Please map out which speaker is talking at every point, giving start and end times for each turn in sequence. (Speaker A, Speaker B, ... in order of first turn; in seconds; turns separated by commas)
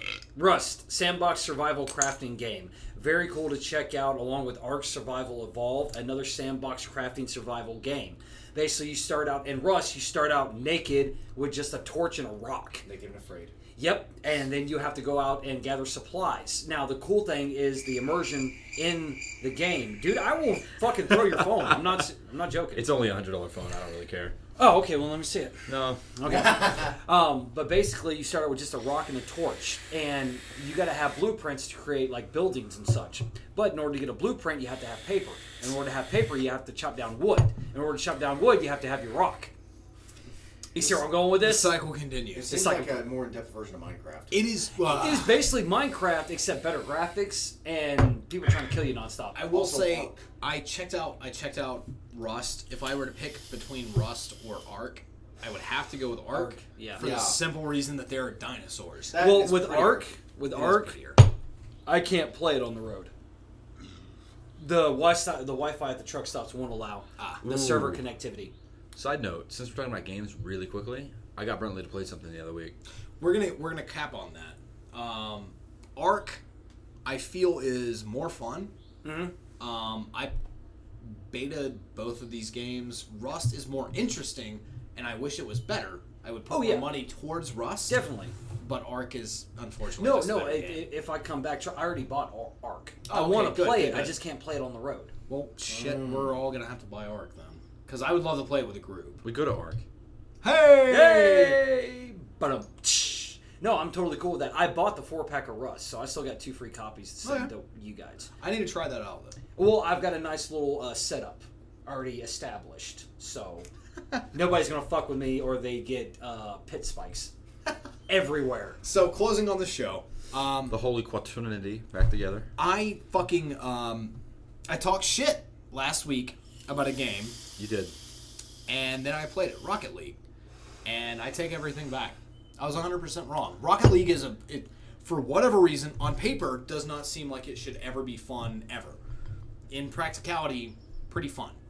Speaker A: 0.3-12.8, Speaker B: 12.8-13.5, Speaker A: 13.8-22.9, Speaker C: 21.3-21.8, Speaker C: 22.7-24.3, Speaker A: 24.6-25.6, Speaker C: 25.7-26.0, Speaker A: 26.1-39.5, Speaker B: 26.2-26.9, Speaker A: 40.7-41.8, Speaker D: 41.2-42.5, Speaker B: 42.3-44.4, Speaker A: 42.5-43.0, Speaker D: 44.3-45.4, Speaker A: 44.9-50.1, Speaker D: 49.3-59.2, Speaker A: 56.3-57.1, Speaker B: 57.0-57.4, Speaker B: 59.1-60.1, Speaker A: 59.1-61.0, Speaker D: 60.4-61.2, Speaker A: 61.8-63.1, Speaker A: 64.6-68.5, Speaker D: 67.2-67.4, Speaker C: 67.4-68.0, Speaker C: 68.9-72.7, Speaker D: 73.2-76.4, Speaker D: 77.0-78.7, Speaker A: 79.0-79.3, Speaker D: 79.6-80.3, Speaker D: 81.0-88.0, Speaker A: 86.5-87.1, Speaker A: 87.9-88.3, Speaker D: 88.6-90.9, Speaker A: 90.0-95.1, Speaker D: 93.1-94.2, Speaker D: 95.3-99.2, Speaker B: 95.7-96.3, Speaker C: 99.2-99.8, Speaker D: 100.4-101.6, Speaker A: 100.9-108.3, Speaker D: 107.2-107.5, Speaker D: 108.4-109.3, Speaker A: 109.5-113.7, Speaker A: 114.3-117.3, Speaker A: 118.1-118.8, Speaker D: 118.8-120.8, Speaker C: 120.7-122.5, Speaker D: 122.6-124.1, Speaker D: 124.7-127.4, Speaker C: 127.6-127.9, Speaker D: 128.7-130.2, Speaker D: 130.8-139.0, Speaker D: 139.7-141.6